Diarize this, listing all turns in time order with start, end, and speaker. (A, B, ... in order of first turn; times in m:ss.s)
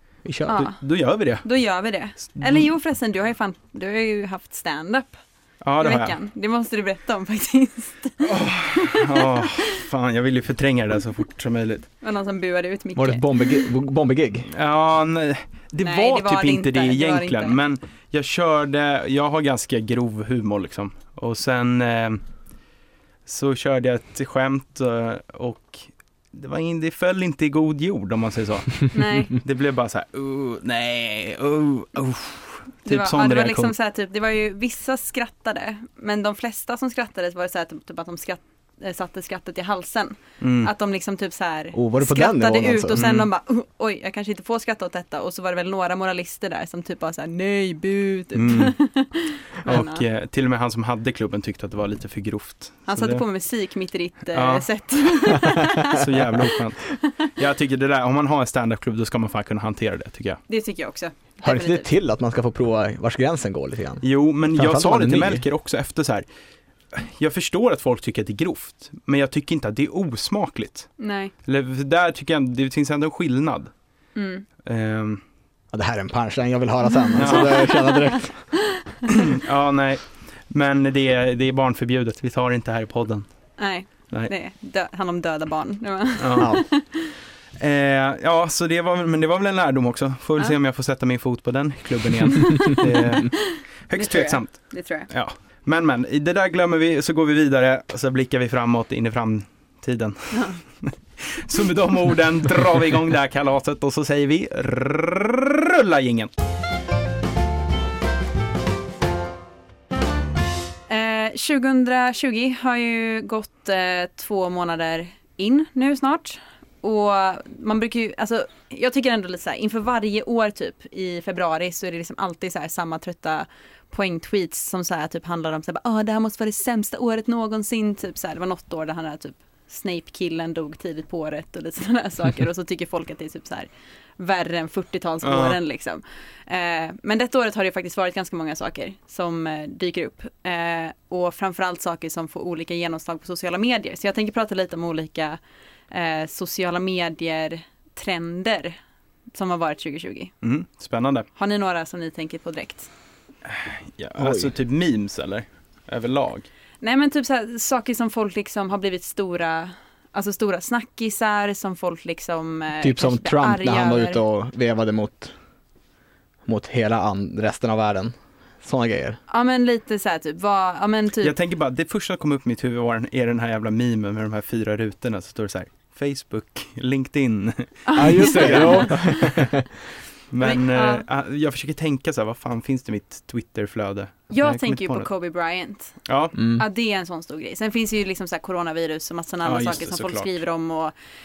0:00.2-0:00.5 A
0:00.4-0:01.4 B
0:00.5-0:00.8 C
0:01.4-0:05.2 C
0:02.3-0:02.7 B
0:05.6-0:06.1 B
0:05.8-0:09.8 C
0:08.2-0:11.9 B
0:12.0-0:13.7 C
0:13.0-0:14.5 A
0:14.5-0:22.2 B
0:15.8-0:17.6 C
0:23.2-0:33.7 B
0:28.9-0:29.4 C
0:32.8-0:50.0 C
0:40.4-0:40.7 B
0:41.7-0:43.0 A
0:42.9-0:43.3 B
0:48.3-0:48.8 B
0:49.6-0:53.2 B
0:52.9-0:56.5 C
0:54.3-1:00.4 B
1:00.5-1:01.8 C
1:01.4-1:04.0 A
1:04.0-1:06.2 B
1:04.5-1:05.4 A
1:06.9-1:10.9 B
1:11.0-1:11.3 C
1:11.4-1:13.7 B
1:14.2-1:14.4 C
1:14.6-1:15.2 B
1:15.7-1:18.4 A
1:17.2-1:17.7 B
1:17.3-1:18.2 C
1:19.1-1:23.3 B
1:23.6-1:27.1 C
1:26.2-1:26.5 B
1:27.6-1:46.3 B
1:32.7-1:35.1 C
1:40.3-1:40.6 C
1:50.9-2:25.4 C
2:15.2-2:15.6 B
2:25.9-2:28.8 C
2:29.3-2:30.3 C
2:30.4-2:31.3 B
2:31.4-2:32.9 C
2:33.4-2:36.5 B
2:34.2-2:34.5 A
2:36.8-2:44.2 C
2:42.8-2:45.3 A
2:46.4-2:49.2 A
2:49.3-2:51.3 C
2:51.2-2:59.2 B
2:57.9-2:59.3 C
2:58.0-2:59.7 A
3:00.3-3:05.1 B
3:00.4-3:01.0 C
3:04.3-3:06.0 C
3:06.0-3:06.4 B
3:06.4-3:06.6 A
3:06.5-3:10.9 C
3:09.4-3:10.4 B